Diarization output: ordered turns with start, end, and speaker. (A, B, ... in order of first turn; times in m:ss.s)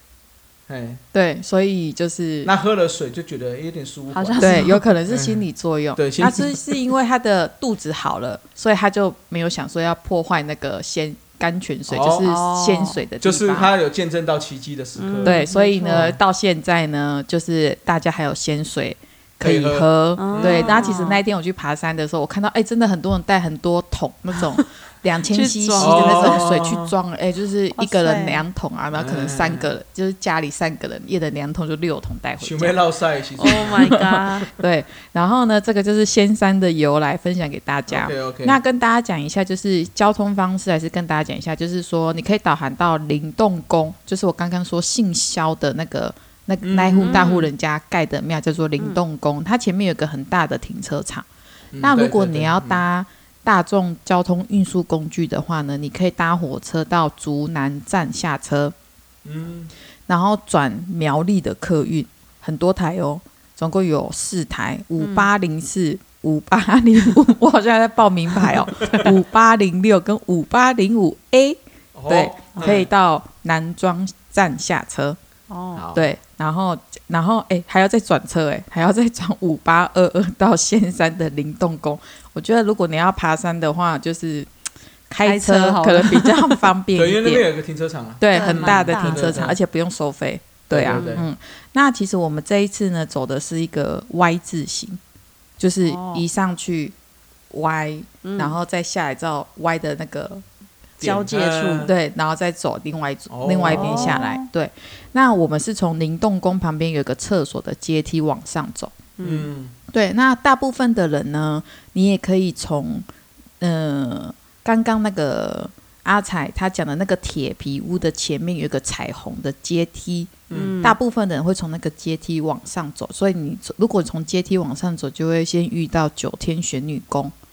0:00.7-0:01.0 A
0:01.1-0:02.5 B
0:02.4-0:05.4 A
0:04.1-0:04.8 C
0:04.4-0:13.7 B
0:06.0-0:06.9 A
0:11.9-0:12.3 A
0:12.2-0:13.0 C
0:13.2-0:16.2 A
0:15.0-0:16.1 C
0:15.2-0:32.8 B
0:19.4-0:20.9 A
0:20.2-0:21.2 C
0:25.2-0:26.7 C
0:25.8-0:26.9 A
0:27.8-0:28.5 C
0:28.9-0:29.7 A
0:32.4-0:33.9 A
0:33.4-0:34.5 C
0:33.4-0:51.3 B
0:37.9-0:38.6 A
0:46.6-0:47.5 A
0:47.0-0:47.5 C
0:51.7-0:52.8 A
0:51.8-0:58.7 B
0:59.2-0:59.7 A
1:00.1-1:15.2 B
1:05.0-1:05.3 C
1:08.6-1:09.1 A
1:11.9-1:12.9 A
1:12.6-1:12.8 C
1:15.5-1:15.9 C
1:15.8-1:16.1 A
1:16.0-1:24.5 B
1:25.1-1:27.5 B
1:25.2-1:26.7 C
1:27.0-1:29.6 A
1:28.2-1:35.0 B
1:28.3-1:29.4 C
1:30.7-1:31.3 A
1:30.8-1:31.2 C
1:35.6-1:37.0 B
1:35.8-1:36.2 C
1:37.5-1:40.4 B
1:38.2-1:38.6 C
1:41.0-1:41.9 C
1:41.0-1:41.9 A
1:41.8-1:49.0 B
1:43.3-1:44.2 A
1:43.7-1:44.5 C
1:49.2-1:49.5 C
1:49.2-1:49.7 A
1:49.9-1:53.1 B
1:53.6-2:07.3 B
2:00.5-2:00.8 A
2:00.5-2:01.0 C